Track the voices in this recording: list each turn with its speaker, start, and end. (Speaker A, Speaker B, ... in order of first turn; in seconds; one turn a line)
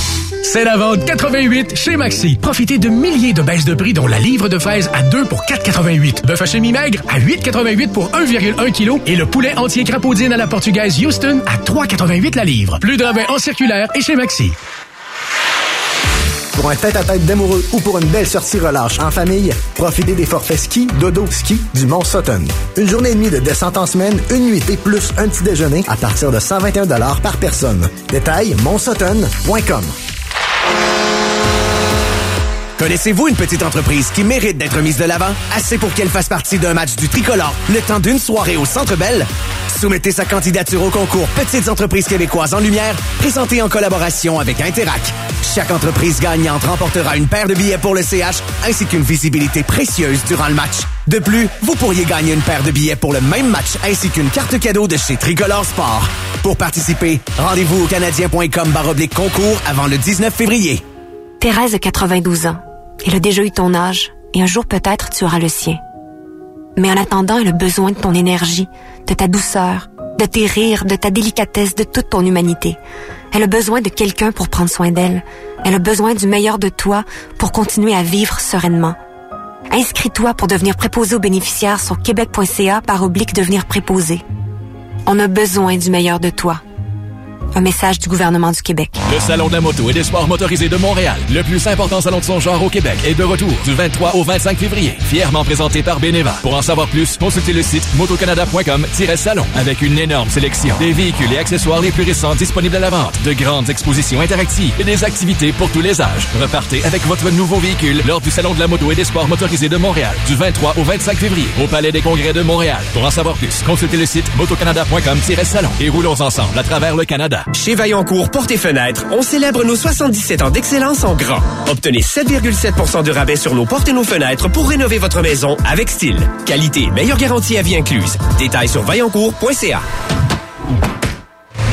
Speaker A: 0.4-14.5
Speaker B: 16.5-29.9
Speaker C: 32.8-60.8
Speaker D: 61.4-65.8
Speaker D: 66.8-72.8
Speaker D: 73.3-79.0
Speaker D: 79.7-84.2
Speaker D: 85.0-86.6
Speaker D: 87.5-88.9
Speaker E: 89.1-117.5
Speaker F: 117.5-129.8